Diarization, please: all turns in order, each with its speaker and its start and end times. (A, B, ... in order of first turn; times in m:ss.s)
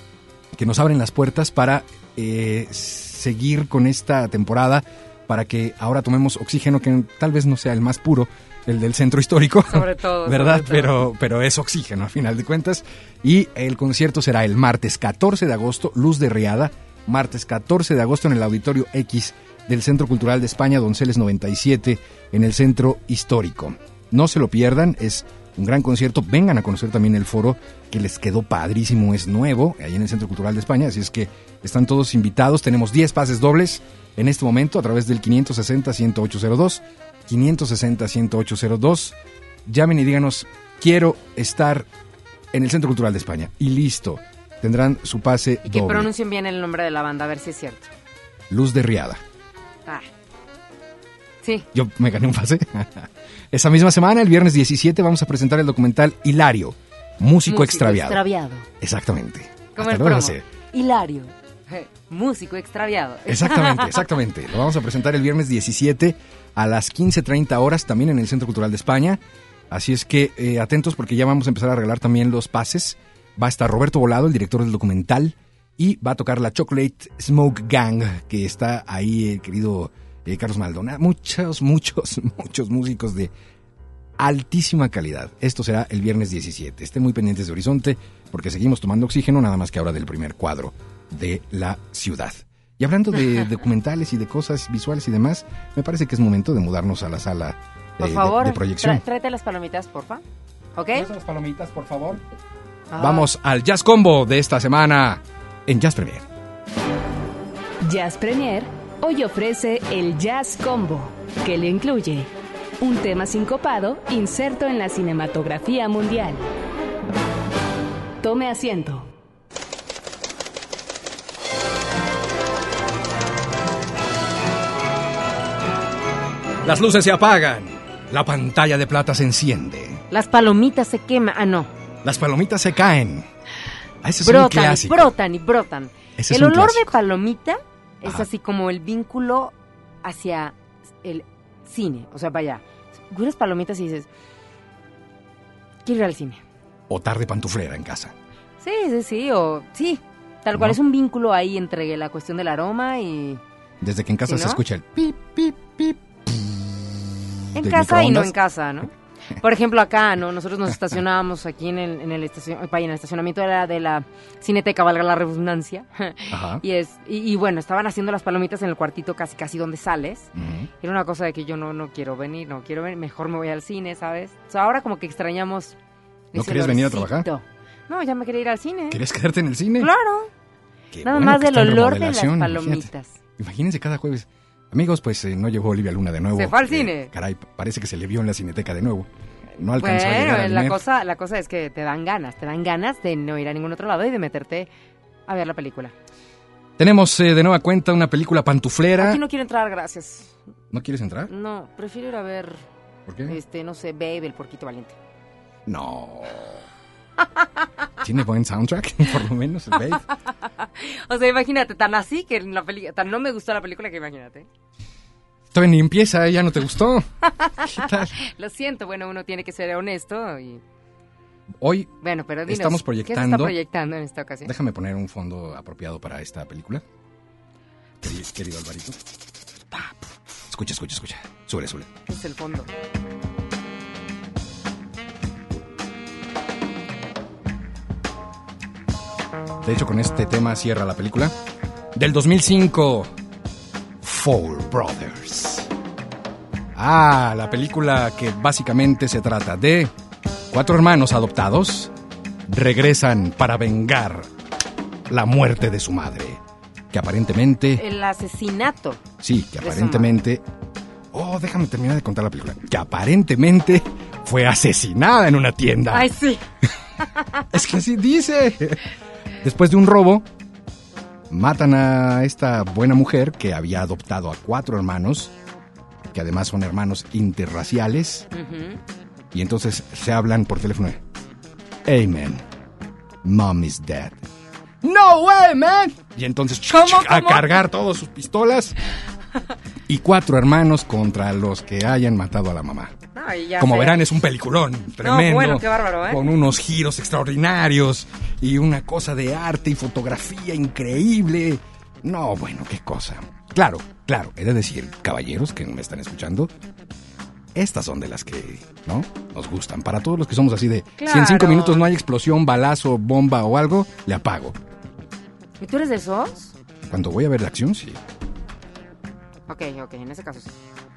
0:00.5-0:41.9 A
0:09.6-0:11.0 B
0:42.5-0:46.1 A
0:45.6-0:47.9 B
0:48.5-0:49.2 A
0:51.7-0:58.2 A
0:57.4-0:58.7 B
0:58.8-1:00.4 A
0:59.8-1:04.1 B
1:03.3-1:23.3 A
1:24.2-1:39.0 A
1:38.0-1:40.2 B
1:40.8-1:41.1 B
1:40.9-1:42.2 A
1:42.9-1:43.3 B
1:43.0-1:46.2 A
1:47.8-1:56.5 C
1:58.2-1:59.1 C
2:06.6-2:10.0 A
2:10.1-2:11.7 B
2:12.0-2:13.3 A
2:14.0-2:15.1 A
2:14.2-2:19.5 B
2:16.2-2:16.9 A
2:20.0-2:24.1 B
2:25.8-2:26.4 B
2:26.9-2:28.1 A
2:28.6-2:33.4 B
2:30.5-2:30.8 A
2:33.8-2:36.5 A
2:34.3-2:34.6 B
2:37.5-2:55.8 B
2:37.6-2:38.3 A
2:46.3-2:46.6 A
2:50.3-2:50.7 A
2:56.3-2:59.0 B
2:56.3-2:57.3 A
2:58.9-2:59.9 A
2:59.8-3:00.3 B
3:00.9-3:10.8 A
3:01.0-3:03.2 B
3:06.3-3:07.1 B
3:09.7-3:14.7 B
3:15.3-3:15.9 B
3:16.8-3:19.2 A
3:19.0-3:20.3 B
3:20.7-3:21.3 A
3:21.3-3:22.6 B
3:23.1-3:23.4 A
3:23.3-3:25.0 B
3:25.6-3:26.6 A
3:28.0-3:30.0 A
3:30.6-3:34.5 B
3:35.5-3:38.1 A
3:37.2-3:40.6 B
3:41.6-3:41.9 A
3:42.0-3:44.5 B
3:42.4-3:43.5 A
3:44.4-3:46.8 A
3:48.0-3:49.0 A
3:50.5-3:51.9 A
3:52.1-3:52.7 B
3:59.6-4:01.3 A
4:01.9-4:03.1 A
4:04.0-4:05.7 A
4:06.7-4:09.9 A
4:10.5-4:11.9 A
4:12.5-4:14.3 A
4:15.1-4:17.8 A
4:17.8-4:19.0 B
4:19.2-4:20.4 A
4:19.6-4:20.1 B
4:21.1-4:26.1 A
4:25.9-4:26.4 B
4:27.1-4:27.4 B
4:27.5-4:28.8 A
4:29.4-4:30.3 A
4:31.3-4:35.3 A
4:36.1-4:38.3 A
4:38.3-4:38.8 B
4:39.3-4:41.0 A
4:41.8-4:42.4 A
4:43.2-4:44.2 A
4:44.8-4:48.8 A
4:46.7-4:47.5 B
4:49.9-4:53.0 A
4:53.1-4:54.0 B
4:53.6-5:06.5 A
4:55.0-4:56.2 B
5:07.5-5:14.6 A
5:11.0-5:11.9 B
5:15.6-5:16.5 B
5:16.9-5:18.0 A
5:19.5-5:20.5 B